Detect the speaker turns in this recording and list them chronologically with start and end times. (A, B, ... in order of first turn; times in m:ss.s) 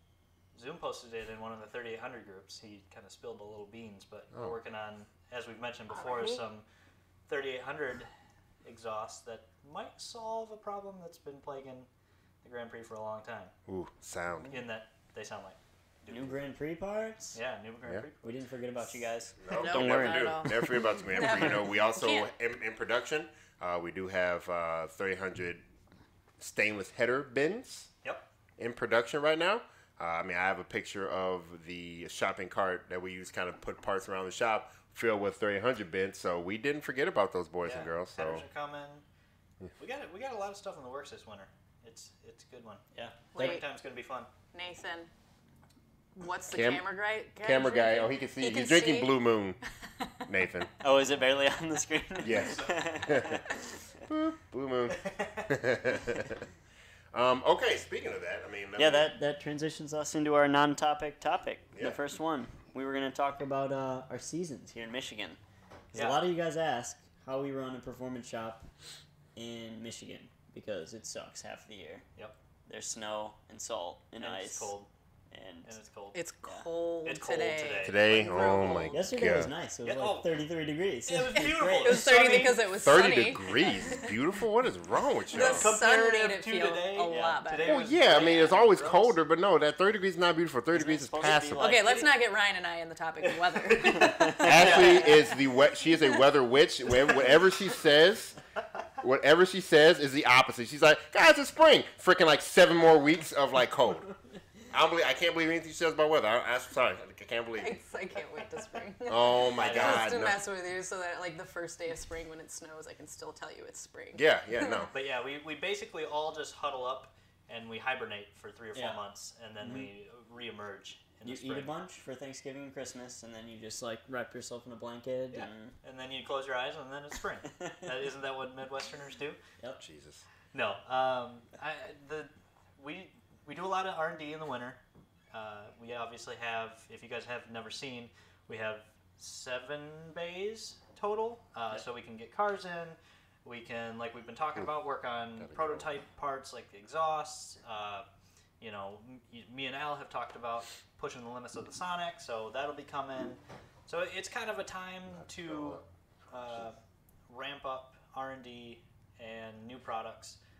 0:00.5-0:06.6 A
0:05.9-0:06.4 B
0:07.3-0:08.1 A
0:08.6-0:11.9 A
0:12.4-0:13.5 A
0:13.7-0:14.5 C
0:14.5-0:16.4 A
0:16.1-0:17.4 D
0:17.3-0:18.3 A
0:18.2-0:20.5 D
0:19.4-0:25.6 C
0:19.5-0:22.3 B
0:26.4-0:27.9 C
0:28.6-0:38.4 C
0:37.6-0:39.0 A
0:39.8-0:44.3 A
0:42.9-0:43.6 D
0:43.3-0:43.6 B
0:44.5-0:45.1 B
0:46.2-0:49.2 B
0:46.5-0:46.9 C
0:47.4-0:49.6 C
0:50.2-0:50.7 C
0:50.8-0:53.5 D
0:52.2-0:53.4 C
0:54.1-0:56.4 C
0:55.0-0:55.5 A
0:57.1-0:59.1 C
0:58.8-1:05.4 D
1:01.7-1:02.0 C
1:05.9-1:08.7 D
1:05.9-1:06.2 A
1:09.4-1:12.0 D
1:12.7-1:14.7 D
1:14.2-1:14.9 A
1:15.3-1:15.7 D
1:15.6-1:16.2 A
1:16.1-1:19.0 B
1:17.0-1:18.8 A
1:17.8-1:19.5 C
1:18.9-1:22.0 D
1:19.8-1:20.3 A
1:21.0-1:22.6 A
1:21.4-1:24.1 B
1:22.8-1:25.7 C
1:25.3-1:27.8 B
1:25.3-1:29.2 A
1:27.1-1:27.4 D
1:27.6-1:31.6 C
1:30.7-1:32.0 D
1:31.6-1:35.3 B
1:31.7-1:32.1 A
1:33.8-1:35.2 A
1:34.0-1:34.8 D
1:34.4-1:38.4 C
1:39.0-1:44.1 C
1:44.7-1:47.8 C
1:47.6-1:54.9 B
1:49.1-1:50.4 C
1:49.6-1:50.2 A
1:54.1-1:54.9 C
1:54.9-2:01.7 A
1:58.7-1:59.0 D
1:59.6-1:59.9 D
2:01.2-2:05.7 D
2:05.3-2:09.4 A
2:09.8-2:10.2 C
2:10.5-2:14.8 A
2:15.3-2:28.0 A
2:25.4-2:25.9 C
2:28.6-2:40.4 A
2:35.1-2:36.7 C